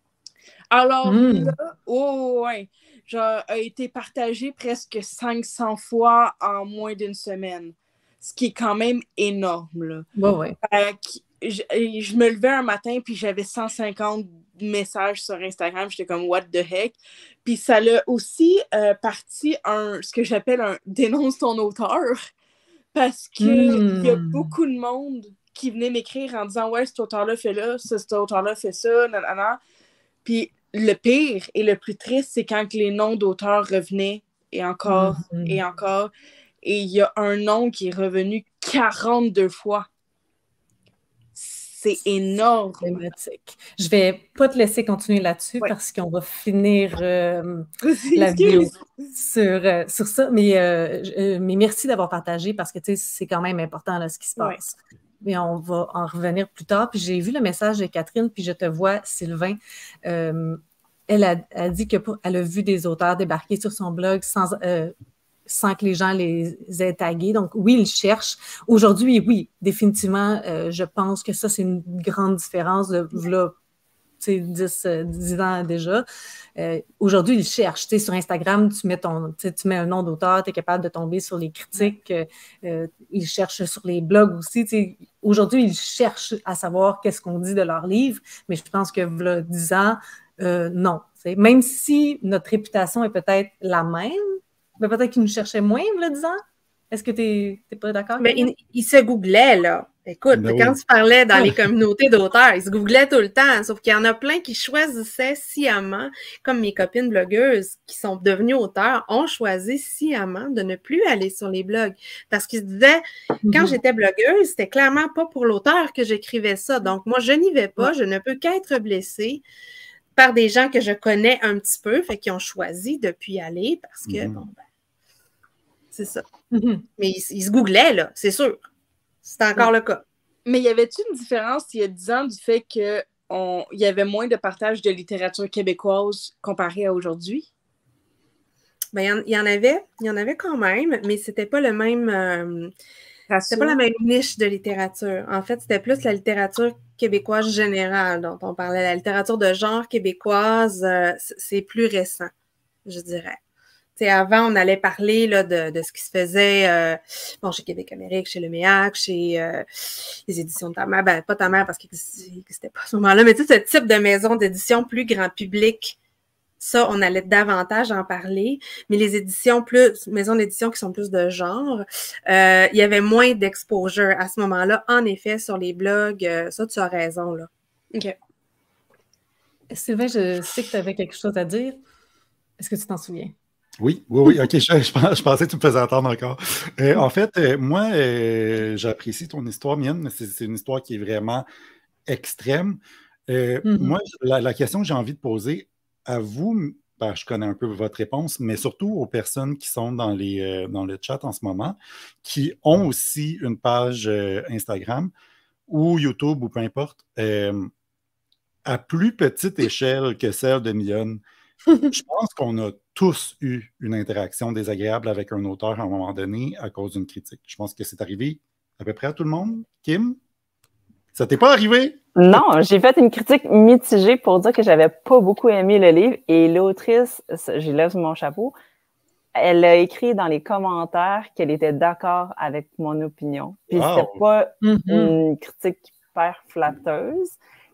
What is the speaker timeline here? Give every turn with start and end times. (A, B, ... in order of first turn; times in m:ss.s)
0:00.7-0:10.1 A
0:01.0-0:01.5 B
0:10.2-0:10.6 B
0:10.6-0:22.3 A
0:22.9-0:29.6 A
0:23.4-0:24.5 B
0:30.2-0:36.1 A
0:34.8-0:35.6 B
0:36.6-0:39.9 A
0:41.3-0:42.9 A
0:42.8-1:04.9 B
0:47.8-0:48.8 A
1:05.5-1:13.5 B
1:14.2-1:16.0 B
1:16.6-1:36.4 B
1:36.9-1:38.5 B
1:38.2-1:59.4 C
1:40.3-1:40.8 D
1:53.4-1:53.8 B
2:00.2-2:04.6 C
2:04.0-2:04.4 D
2:05.9-2:06.2 C
2:06.5-2:06.8 B
2:07.0-2:08.6 C
2:09.2-2:10.0 C
2:10.4-2:17.5 A
2:18.9-2:22.7 C
2:23.3-2:23.8 A
2:23.5-2:32.3 C
2:32.8-2:33.4 C
2:34.0-2:46.0 C
2:46.6-2:57.5 C
2:59.7-3:01.8 B
3:02.6-3:03.3 B
3:03.8-3:11.4 D
3:12.0-3:25.1 D
3:13.6-3:14.0 B
3:25.7-3:27.7 D
3:28.6-3:31.2 D
3:31.9-3:40.2 D
3:41.1-3:42.4 D
3:42.2-3:48.5 E
3:49.3-3:57.3 E
3:53.7-3:54.2 D
3:54.6-3:55.2 B